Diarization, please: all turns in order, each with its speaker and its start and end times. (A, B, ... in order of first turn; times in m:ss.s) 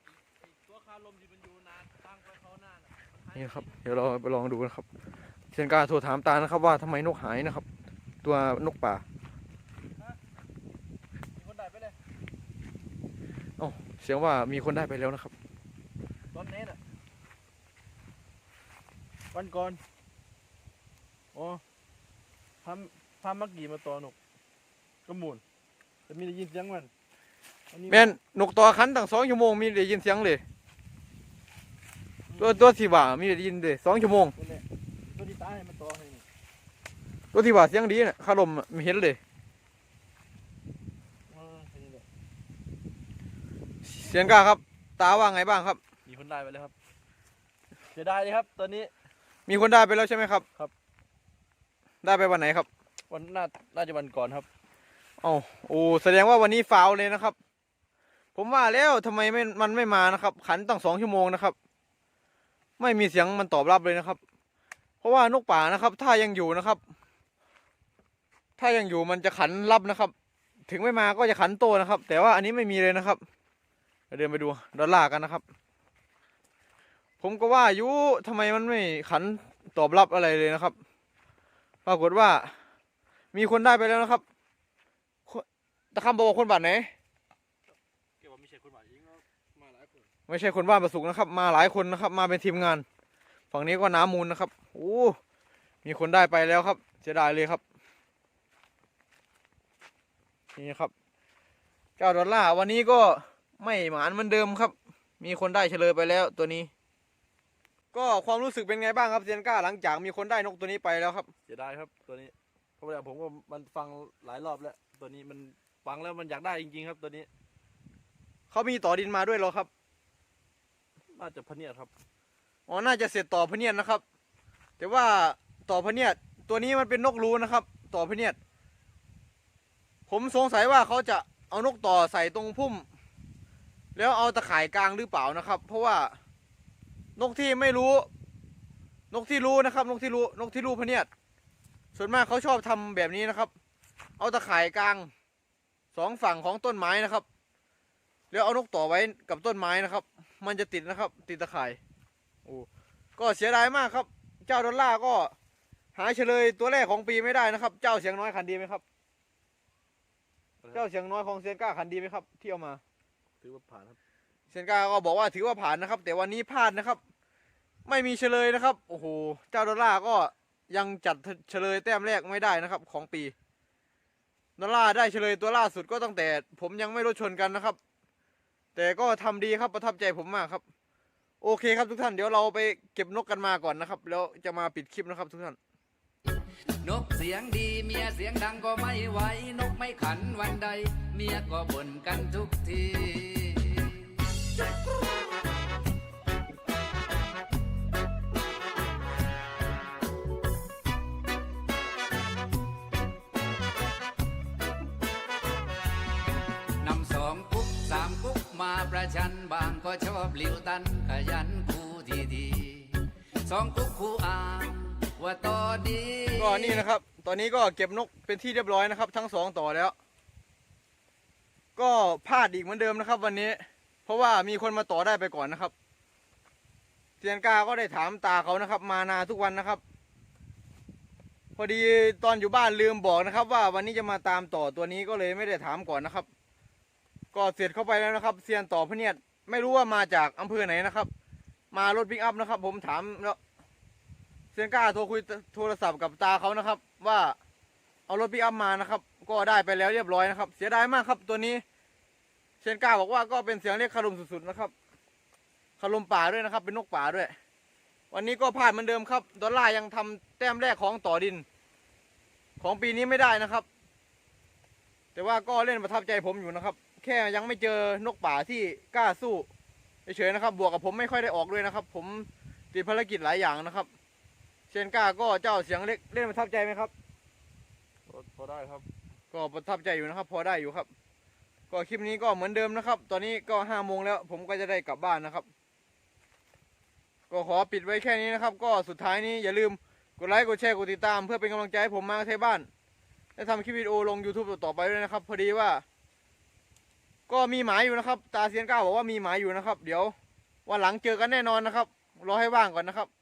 0:00.4-0:03.8 A
0:03.3-0:04.8 B
0:05.5-0:07.6 B
0:08.2-0:09.0 B
0:11.3-0:12.0 A
0:13.6-0:15.3 B
0:16.3-0:16.8 A
0:19.3-0:19.8 A
0:21.3-0:21.6 A
0:22.6-0:24.2 A
0:25.0-0:25.4 A
0:26.1-0:26.9 A
0:27.7-0:28.1 A
0:27.9-0:30.4 B
0:32.4-0:34.3 B
0:34.4-0:36.2 A
0:37.3-0:39.2 B
0:41.3-0:42.0 A
0:43.8-0:45.8 B
0:46.0-0:46.7 A
0:47.9-0:48.9 A
0:49.5-0:50.4 B
0:52.0-0:52.7 B
0:53.1-0:54.5 A
0:55.2-0:57.4 B
0:58.3-1:01.5 B
1:02.8-1:04.2 B
1:05.0-1:06.8 B
1:08.6-1:10.1 B
1:10.7-1:13.2 B
1:14.1-1:15.4 B
1:17.2-1:20.7 B
1:21.8-1:22.5 B
1:23.3-1:24.2 B
1:25.3-1:26.9 B
1:28.2-1:30.1 A
1:30.3-1:32.8 B
1:33.5-1:35.2 B
1:35.8-1:37.6 B
1:40.5-1:40.9 B
1:42.0-1:46.7 B
1:47.9-1:51.3 B
1:51.5-1:57.3 A
1:58.5-1:59.7 B
2:01.1-2:01.9 A
2:02.7-2:04.0 B
2:04.8-2:08.4 B
2:10.1-2:12.8 B
2:13.9-2:16.1 B
2:17.2-2:18.1 B
2:19.1-2:21.1 B
2:21.9-2:23.5 B
2:24.2-2:25.1 B
2:25.9-2:27.2 B
2:28.3-2:31.8 B
2:32.4-2:35.3 B
2:36.0-2:38.8 B
2:40.7-2:42.8 B
2:43.4-2:44.0 A
2:44.5-2:47.0 B
2:47.8-2:53.3 B
2:54.6-2:57.8 B
2:58.8-3:00.6 B
3:01.4-3:05.6 B
3:06.8-3:14.4 C
3:26.8-3:36.8 C
3:36.4-3:39.9 B
3:41.8-3:45.7 B
3:47.2-3:49.8 B
3:51.6-3:56.3 B
3:57.3-4:01.1 B
4:01.7-4:03.4 B
4:04.5-4:07.4 B
4:08.1-4:11.6 B
4:12.6-4:14.7 B
4:15.8-4:17.3 B
4:18.1-4:21.4 B
4:22.6-4:23.6 B
4:25.1-4:29.5 B
4:30.0-4:33.9 B
4:34.7-4:36.9 B
4:38.1-4:38.9 A
4:39.3-4:40.9 B
4:41.7-4:45.5 B
4:47.3-4:52.7 B
4:53.4-4:55.8 B
4:57.3-5:00.1 B
5:00.6-5:03.1 B